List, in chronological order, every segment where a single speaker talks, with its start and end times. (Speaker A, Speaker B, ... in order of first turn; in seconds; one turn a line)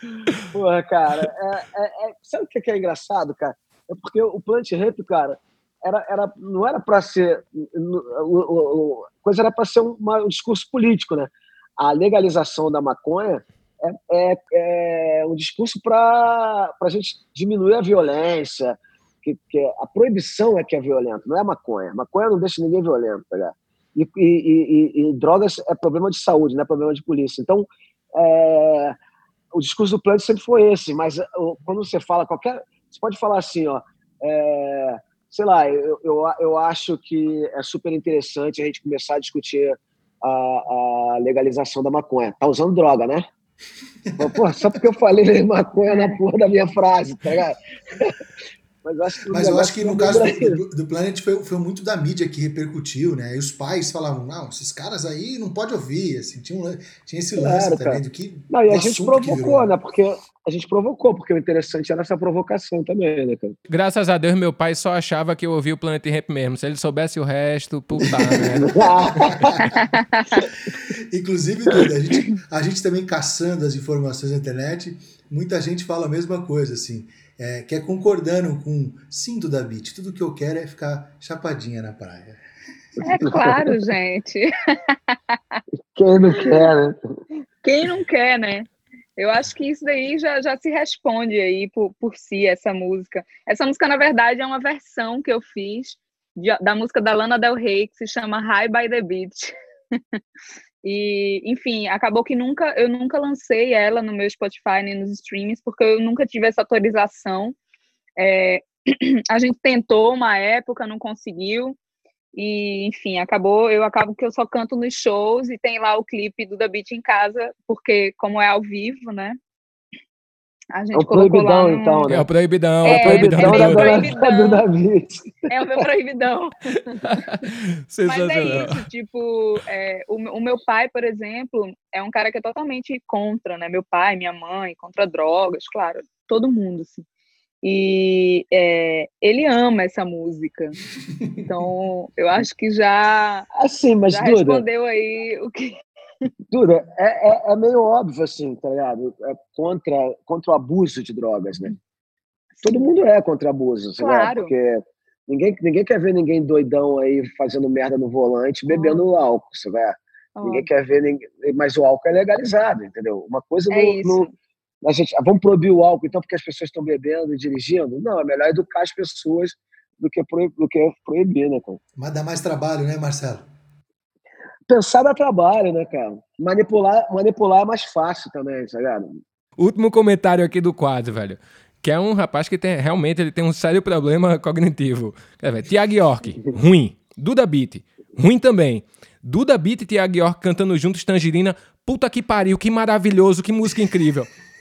Speaker A: 0.5-28.9
Speaker A: 29.5-43.2
Speaker B: 44.0-44.8
Speaker A: 44.2-48.2
Speaker A: 48.8-50.6
Speaker B: 49.2-59.7
Speaker A: 57.4-63.5
Speaker C: 63.7-68.7
Speaker B: 68.2-69.8
Speaker A: 68.7-69.7
Speaker D: 69.9-70.5
Speaker B: 71.1-82.4
Speaker A: 83.0-83.5
Speaker D: 83.0-85.6
Speaker A: 85.9-87.0
Speaker D: 87.6-100.2
Speaker D: 100.8-107.5
Speaker D: 108.2-111.8
Speaker D: 112.3-119.4
Speaker D: 120.7-122.0
Speaker A: 120.9-122.3
Speaker C: 122.1-124.1
Speaker A: 122.8-125.9
Speaker D: 122.8-124.6
Speaker D: 125.5-126.5
Speaker C: 127.0-128.8
Speaker D: 128.1-137.0
Speaker D: 137.6-140.8
Speaker D: 141.4-143.5
Speaker A: 143.6-144.6
Speaker D: 144.1-145.8
Speaker A: 146.5-151.7
Speaker D: 152.6-152.9
Speaker A: 152.6-164.3
Speaker D: 154.0-154.5
Speaker D: 158.7-159.0
Speaker D: 160.3-160.7
Speaker D: 163.7-164.3
Speaker A: 164.8-171.8
Speaker B: 171.9-173.5
Speaker A: 174.7-179.2
Speaker C: 179.6-194.3